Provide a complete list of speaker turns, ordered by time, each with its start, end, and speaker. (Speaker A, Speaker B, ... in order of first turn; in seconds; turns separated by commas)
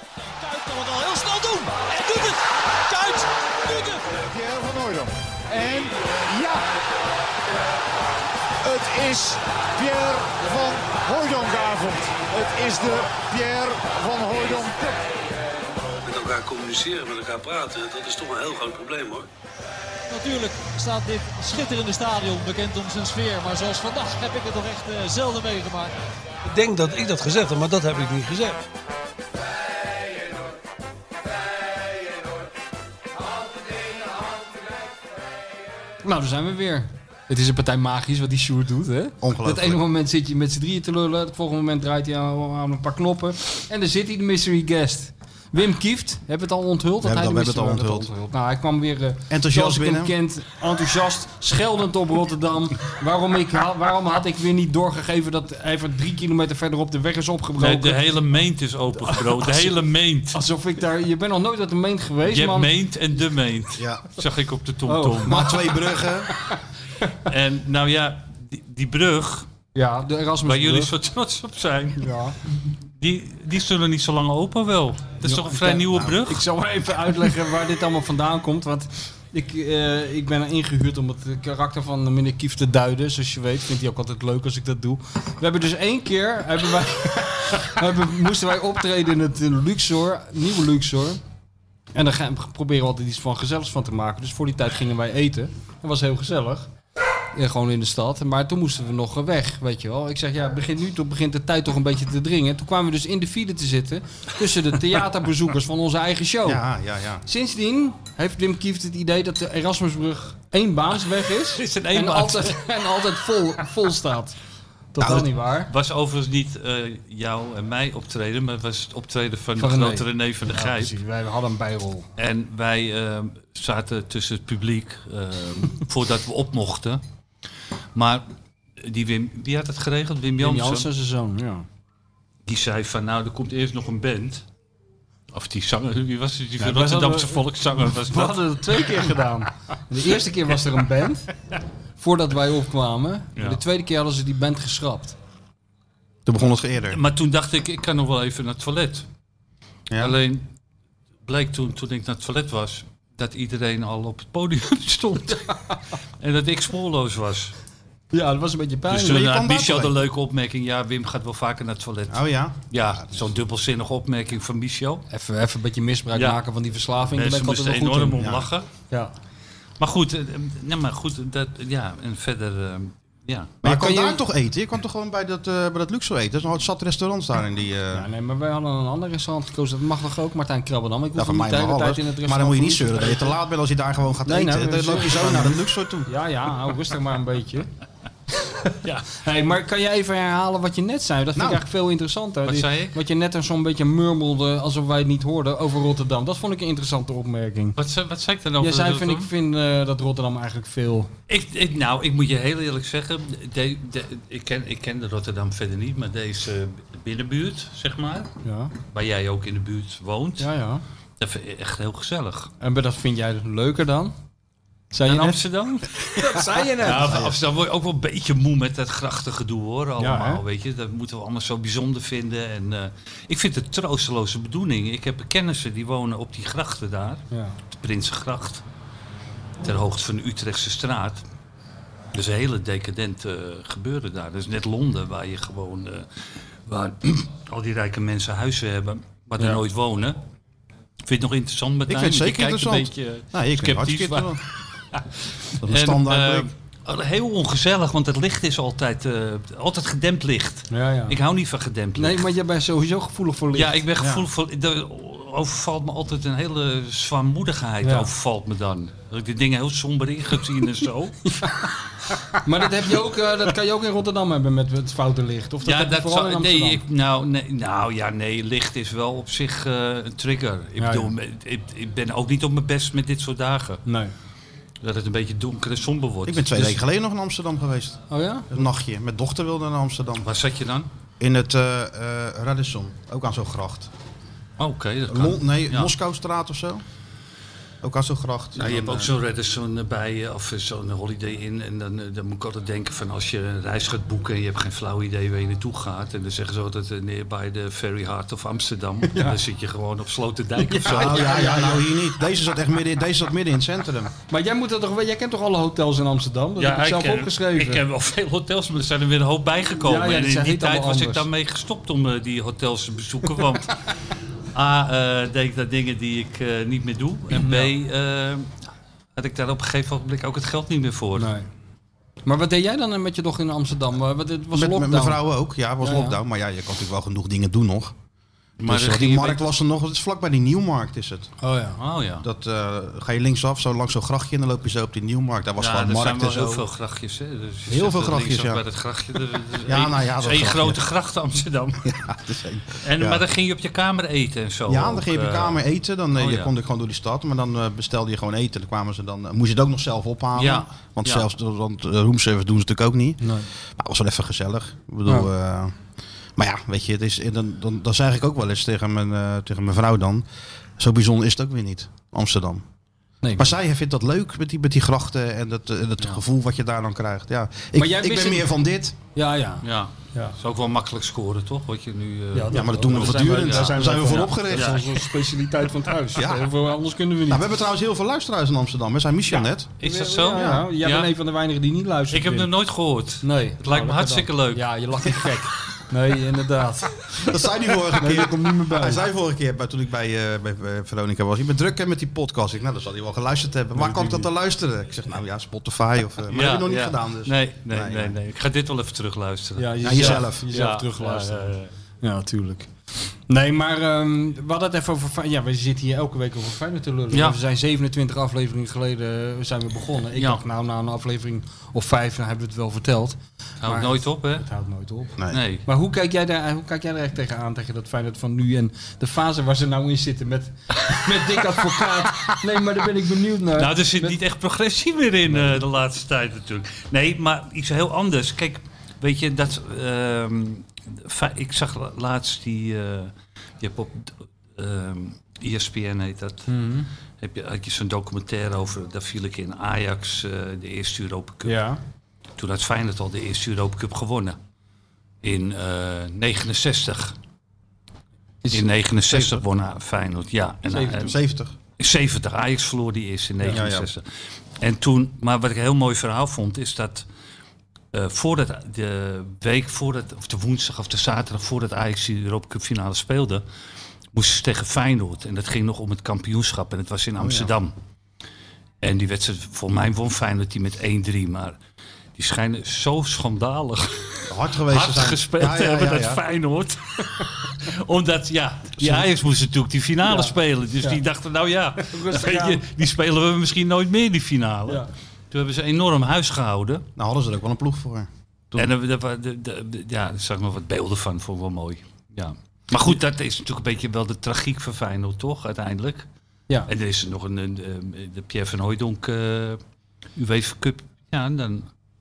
Speaker A: 0.5-2.3, Speaker B: 3.8-6.7, Speaker B: 8.6-15.1, Speaker C: 16.0-19.3, Speaker A: 20.1-25.9, Speaker C: 26.4-28.6, Speaker D: 36.0-58.1, Speaker E: 39.2-39.8, Speaker E: 47.0-48.1, Speaker E: 49.3-50.1, Speaker F: 57.6-60.4, Speaker D: 59.1-59.7, Speaker D: 60.3-62.7, Speaker F: 62.3-65.5, Speaker E: 63.8-64.1, Speaker D: 64.9-66.5, Speaker E: 65.2-66.3, Speaker F: 67.2-69.5, Speaker D: 69.8-70.9, Speaker F: 70.4-72.2, Speaker D: 72.0-72.4, Speaker F: 73.0-76.5, Speaker D: 75.2-91.2, Speaker D: 91.9-96.7, Speaker D: 97.3-106.6, Speaker E: 106.5-107.2, Speaker D: 107.3-114.4, Speaker F: 111.5-112.6, Speaker D: 114.9-115.7, Speaker E: 115.0-115.3, Speaker F: 115.7-120.9, Speaker D: 119.6-122.1, Speaker F: 122.2-127.0, Speaker F: 128.0-128.2, Speaker F: 128.8-130.9, Speaker D: 130.4-131.7, Speaker F: 132.5-134.4, Speaker F: 135.3-139.0, Speaker D: 136.6-141.3, Speaker D: 142.0-145.2, Speaker E: 146.3-147.0, Speaker F: 146.9-149.1, Speaker E: 149.9-150.2, Speaker F: 150.0-150.5, Speaker F: 151.3-157.5, Speaker D: 158.1-159.2, Speaker F: 158.9-165.1, Speaker E: 159.1-159.9, Speaker E: 162.1-162.7, Speaker D: 165.1-168.3, Speaker F: 166.1-166.4, Speaker F: 167.0-168.7, Speaker E: 168.2-168.5, Speaker F: 169.8-173.6, Speaker D: 173.6-174.2, Speaker E: 173.6-178.1, Speaker D: 177.9-183.4, Speaker E: 181.2-186.1, Speaker D: 184.2-187.7, Speaker D: 188.4-197.8, Speaker E: 191.4-191.6, Speaker F: 192.4-193.0, Speaker F: 197.8-199.3, Speaker D: 198.6-201.1, Speaker F: 201.3-208.3, Speaker D: 208.4-208.7, Speaker F: 208.9-210.5, Speaker D: 210.4-210.8, Speaker F: 211.2-212.5, Speaker D: 212.6-214.1, Speaker D: 214.9-215.4, Speaker F: 215.1-216.2, Speaker D: 216.0-217.2, Speaker F: 216.8-228.6, Speaker E: 217.0-217.4, Speaker D: 220.0-220.4, Speaker D: 227.3-227.6, Speaker F: 229.6-231.2, Speaker F: 232.1-240.2, Speaker F: 241.1-252.2, Speaker E: 241.9-244.4, Speaker E: 245.6-246.5, Speaker D: 250.7-251.2, Speaker D: 252.0-253.8, Speaker F: 253.6-261.4, Speaker E: 254.0-254.3, Speaker D: 257.8-258.1, Speaker D: 261.3-261.7, Speaker D: 262.3-266.8, Speaker F: 265.6-273.8, Speaker D: 270.8-271.1, Speaker D: 273.9-274.1, Speaker F: 274.8-276.8, Speaker E: 276.3-280.3, Speaker D: 278.1-278.5, Speaker F: 280.2-280.9, Speaker E: 281.2-283.9, Speaker F: 284.6-285.9, Speaker E: 285.1-286.8, Speaker E: 287.8-289.1, Speaker F: 288.6-301.4, Speaker D: 299.1-299.4, Speaker D: 300.6-302.0, Speaker E: 300.8-304.1, Speaker D: 304.3-307.8, Speaker F: 306.6-313.8, Speaker D: 309.8-311.3, Speaker F: 314.5-318.6, Speaker D: 317.3-317.7, Speaker F: 319.1-321.3, Speaker D: 321.2-321.5, Speaker D: 322.3-325.2, Speaker E: 324.5-327.9, Speaker D: 325.8-326.2, Speaker F: 328.6-329.4, Speaker E: 328.7-331.3, Speaker D: 331.4-331.8, Speaker F: 331.8-332.3, Speaker E: 332.2-336.7, Speaker F: 335.6-341.9, Speaker E: 337.7-338.6, Speaker E: 339.7-340.8, Speaker E: 341.8-343.2, Speaker F: 342.8-345.6, Speaker E: 344.7-355.8, Speaker F: 346.2-346.5, Speaker F: 350.4-351.2, Speaker D: 353.2-353.5, Speaker E: 356.4-360.2, Speaker E: 360.8-362.6, Speaker D: 363.2-363.5, Speaker E: 363.4-369.0, Speaker D: 367.8-368.5, Speaker D: 369.1-370.4, Speaker F: 369.6-375.0, Speaker D: 372.3-377.4, Speaker E: 372.5-374.7, Speaker E: 376.1-376.5, Speaker E: 377.3-379.7, Speaker F: 379.8-381.1, Speaker D: 379.8-382.5, Speaker E: 380.3-380.6, Speaker F: 382.1-384.7, Speaker D: 383.2-387.4, Speaker E: 387.2-398.2, Speaker D: 387.9-389.1, Speaker D: 393.8-394.3, Speaker F: 396.3-401.7, Speaker D: 399.6-402.7, Speaker E: 399.8-400.4, Speaker D: 403.3-424.2, Speaker F: 407.1-407.4, Speaker F: 410.2-410.4, Speaker F: 413.6-414.4, Speaker F: 415.3-415.6, Speaker F: 423.6-436.5, Speaker D: 436.5-436.9, Speaker F: 437.2-441.6, Speaker D: 441.4-441.8, Speaker F: 442.4-444.4, Speaker F: 445.2-447.2, Speaker F: 448.5-451.2, Speaker E: 449.1-449.4, Speaker D: 450.7-451.0, Speaker E: 450.9-451.5, Speaker F: 451.8-454.0, Speaker E: 453.5-453.9, Speaker F: 454.6-457.1, Speaker F: 457.9-463.4, Speaker F: 464.1-467.7, Speaker E: 467.2-467.5, Speaker F: 468.8-471.6, Speaker F: 472.2-486.8, Speaker E: 474.3-476.2, Speaker D: 480.1-481.0, Speaker D: 481.8-482.7, Speaker E: 487.0-488.7, Speaker F: 488.6-496.1, Speaker F: 496.7-499.6, Speaker F: 500.2-501.7